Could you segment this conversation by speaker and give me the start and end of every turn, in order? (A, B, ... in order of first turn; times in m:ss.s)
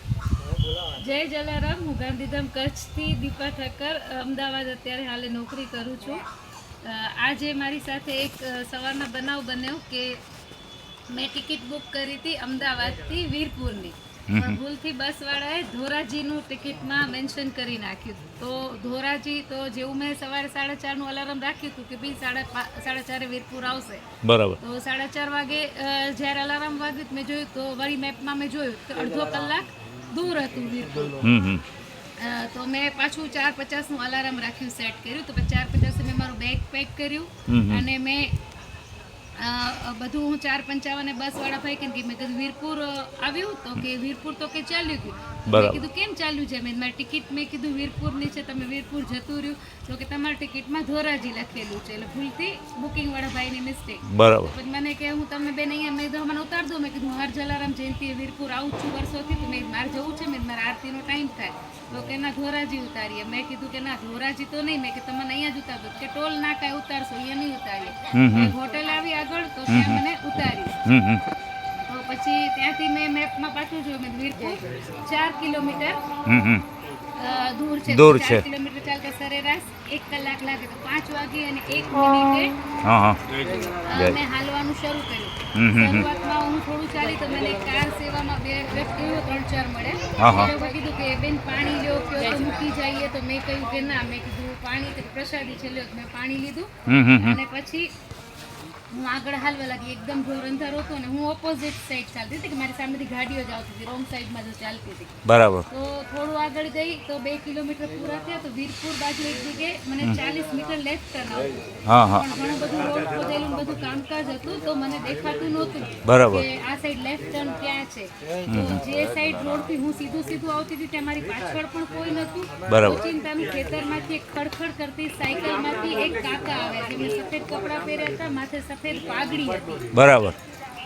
0:00.9-0:06.2 A
0:06.8-0:10.2 A
0:11.1-0:24.0 A
0:14.3-0:14.6 B
0:24.2-0:24.6 B
0:24.6-0:31.2 A
0:31.2-0:31.6 B
0:32.2-0:38.3 A
0:37.5-0:37.8 B
0:39.4-1:10.8 A
0:45.5-0:45.8 B
0:54.1-0:54.5 B
1:08.1-1:08.5 B
1:09.7-1:10.0 B
1:10.8-1:11.2 B
1:11.8-1:16.0 A
1:16.3-1:16.6 B
1:17.2-1:22.6 A
1:17.9-1:18.4 B
1:22.8-1:23.2 B
1:23.4-1:37.9 A
1:23.9-1:24.2 B
1:25.5-1:26.1 B
1:30.2-1:30.5 B
1:36.8-1:37.4 B
1:38.9-2:09.9 A
1:45.2-1:45.7 B
1:51.8-1:52.2 B
1:56.0-1:56.5 B
1:58.5-1:58.8 B
2:02.6-2:03.0 B
2:09.9-2:10.4 B